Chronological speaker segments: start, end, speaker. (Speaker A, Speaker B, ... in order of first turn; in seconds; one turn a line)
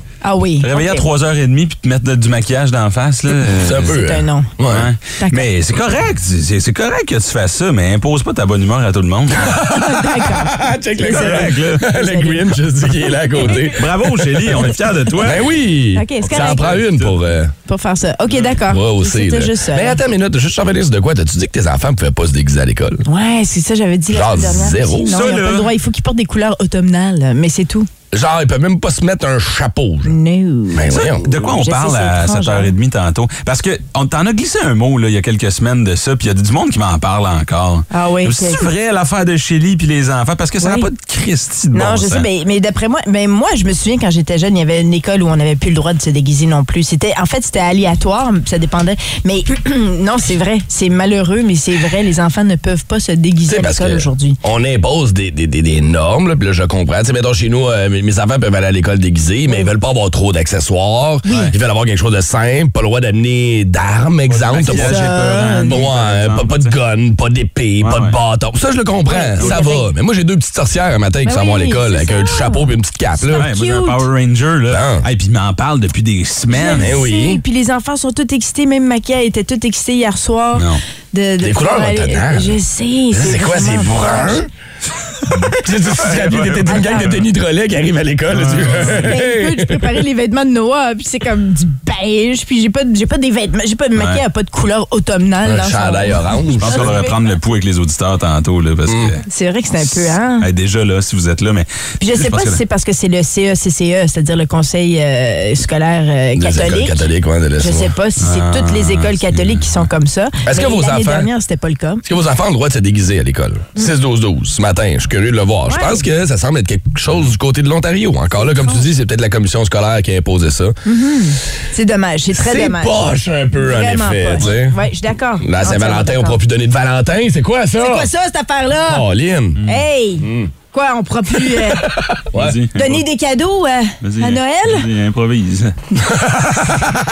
Speaker A: 0.2-1.1
Speaker B: 0.6-3.9
Speaker C: 3.5-4.9
Speaker A: 3.8-4.5
Speaker B: 4.7-9.5
Speaker A: 5.2-5.5
Speaker C: 9.4-17.5
Speaker A: 9.6-12.4
Speaker B: 11.1-11.8
Speaker B: 13.5-15.5
Speaker A: 15.9-16.8
Speaker B: 16.3-17.2
Speaker A: 17.6-20.0
Speaker C: 18.6-23.0
Speaker A: 23.1-27.9
Speaker C: 24.1-25.2
Speaker B: 25.1-25.7
Speaker C: 28.1-30.2
Speaker A: 30.0-32.7
Speaker C: 30.7-31.3
Speaker B: 30.9-42.3
Speaker A: 37.9-38.7
Speaker A: 40.6-40.9
Speaker A: 41.7-54.4
Speaker C: 53.5-73.5
Speaker A: 61.2-61.5
Speaker B: 61.3-61.5
Speaker B: 64.3-66.7
Speaker A: 64.7-65.8
Speaker B: 67.8-68.2
Speaker A: 69.1-69.9
Speaker A: 71.2-74.0
Speaker B: 73.3-77.0
Speaker C: 74.7-75.0
Speaker A: 76.5-84.5
Speaker C: 76.8-77.4
Speaker B: 80.5-80.8
Speaker C: 81.4-82.6
Speaker C: 83.1-84.5
Speaker B: 85.3-87.2
Speaker C: 85.5-90.0
Speaker A: 86.7-87.2
Speaker B: 88.3-89.1
Speaker A: 88.9-97.2
Speaker B: 94.0-94.2
Speaker C: 95.4-97.0
Speaker B: 96.6-99.2
Speaker C: 98.9-99.2
Speaker A: 99.2-100.5
Speaker B: 99.8-102.6
Speaker A: 102.0-107.1
Speaker C: 106.3-107.9
Speaker A: 107.6-112.0
Speaker B: 108.2-109.8
Speaker C: 110.4-111.3
Speaker C: 112.0-120.8
Speaker A: 115.7-116.0
Speaker A: 118.4-118.9
Speaker A: 120.8-122.9
Speaker C: 122.3-124.8
Speaker A: 123.6-126.4
Speaker C: 125.4-128.1
Speaker A: 127.8-129.1
Speaker C: 128.9-129.6
Speaker A: 129.6-131.9
Speaker C: 130.2-130.5
Speaker C: 131.5-132.6
Speaker B: 132.3-133.0
Speaker A: 132.7-134.9
Speaker B: 134.0-135.8
Speaker C: 136.0-137.0